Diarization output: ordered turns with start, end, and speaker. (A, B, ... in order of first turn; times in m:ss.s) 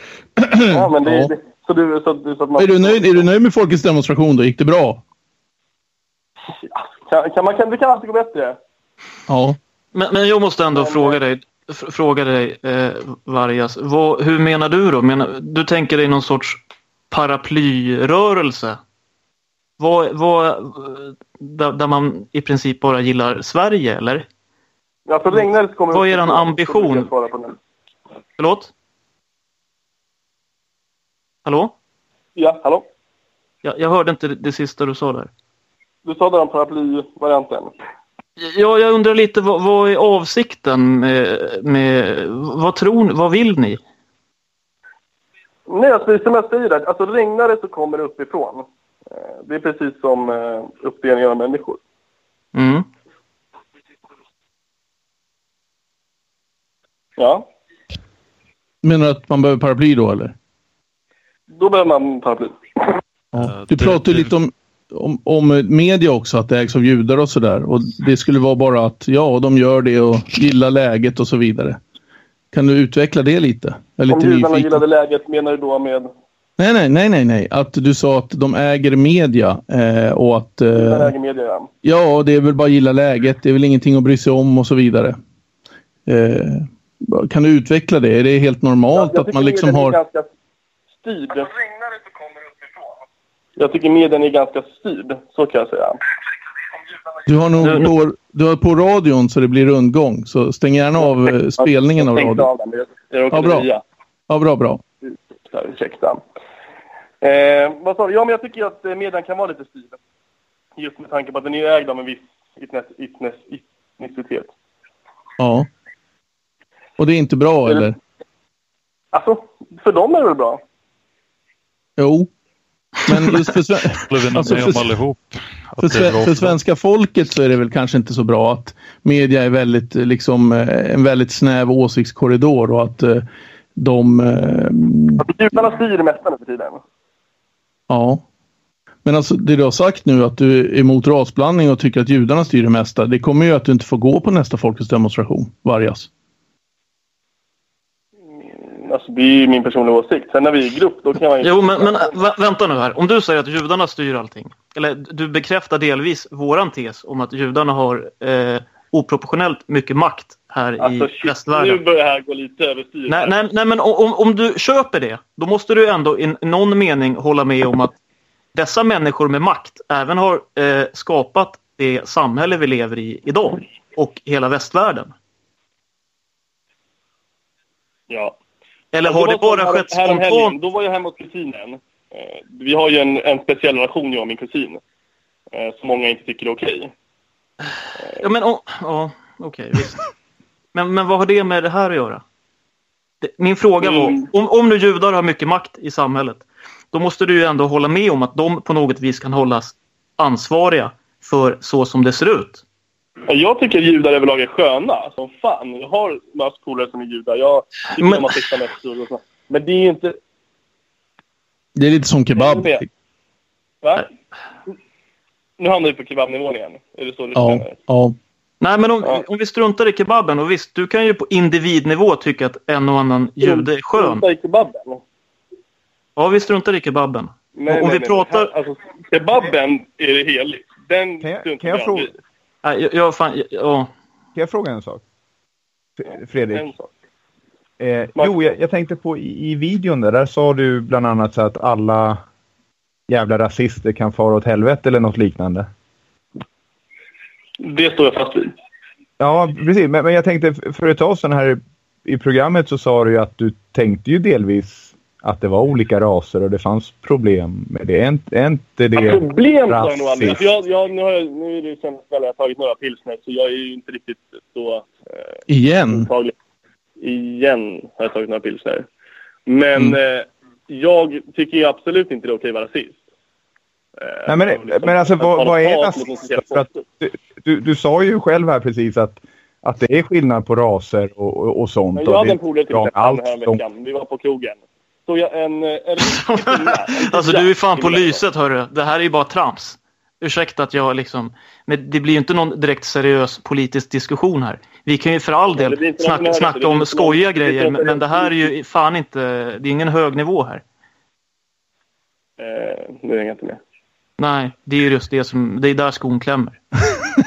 0:00.4-0:01.3 A
0:00.7-0:03.3 B
0:02.6-0:05.0 A
0:06.6-0:08.6 B
0:09.3-0:09.6 A
0:09.9-0:18.8 C
0:10.7-0:11.2 B
0:19.8-0:24.2 C
0:25.1-0:27.5 B
0:25.4-0:27.1 C
0:28.4-0:28.7 C
0:31.4-0:31.7 C
0:32.4-0:32.8 B
0:33.6-0:35.3 C
0:36.0-0:37.7 B
0:38.4-0:43.8 C
0:45.7-0:48.6 B
0:49.2-0:51.8 B
0:52.5-0:52.8 C
0:57.2-0:57.5 B
0:58.8-1:00.3 A
1:01.5-1:02.9 B
1:03.3-1:11.8 A
1:03.3-1:04.3 D
1:12.5-1:14.8 A
1:14.1-1:16.1 B
1:16.6-1:21.1 A
1:20.7-1:21.7 B
1:21.8-1:25.1 A
1:26.1-1:30.0 A
1:28.9-1:30.3 B
1:31.0-1:31.6 B
1:33.6-1:36.0 B
1:37.3-1:42.5 A
1:37.6-1:37.9 C
1:41.6-1:43.8 B
1:43.3-1:43.7 A
1:44.3-1:44.8 A
1:45.0-1:46.2 B
1:47.2-1:50.0 B
1:50.8-1:54.5 B
1:55.4-1:55.6 A
1:57.0-1:57.9 A
1:59.1-2:00.6 B
2:02.0-2:02.3 A
2:03.0-2:04.9 A
2:04.1-2:06.6 D
2:05.8-2:13.2 A
2:13.8-2:15.2 A
2:15.2-2:16.8 B
2:17.9-2:18.2 A
2:19.0-2:26.1 A
2:28.5-2:32.2 B
2:31.4-2:41.8 C
2:40.8-2:43.4 B
2:43.1-2:47.9 C
2:48.5-2:55.1 C
2:58.1-2:58.4 B
2:58.9-3:00.6 C
2:59.0-3:04.8 B
3:05.5-3:06.9 B
3:08.2-3:10.0 C
3:10.7-3:12.2 C
3:13.2-3:22.6 C
3:13.8-3:14.2 B
3:23.3-3:30.1 B
3:28.0-3:28.2 C
3:31.8-3:32.8 A
3:32.3-3:32.8 B
3:33.8-3:34.1 B
3:35.6-3:37.7 B
3:37.4-3:38.1 A
3:38.6-3:44.2 C
3:43.4-3:45.0 B
3:46.2-3:48.5 C
3:47.5-3:52.1 B
3:51.2-3:52.1 E
3:52.6-3:53.9 C
3:54.4-3:55.0 E
3:56.0-3:56.7 E
3:56.5-3:56.9 B
3:57.8-4:02.2 E
4:03.1-4:05.7 E
4:07.6-4:08.5 B
4:09.2-4:20.5 E
4:19.0-4:24.9 B
4:25.5-4:26.1 A
4:25.9-4:26.3 B
4:27.0-4:28.8 B
4:29.5-4:33.0 B
4:34.0-4:36.8 B
4:34.3-4:43.6 E
4:41.9-4:48.2 B
4:46.0-5:00.6 C
4:55.6-4:58.4 B
5:02.4-5:03.6 B
5:04.2-5:06.6 C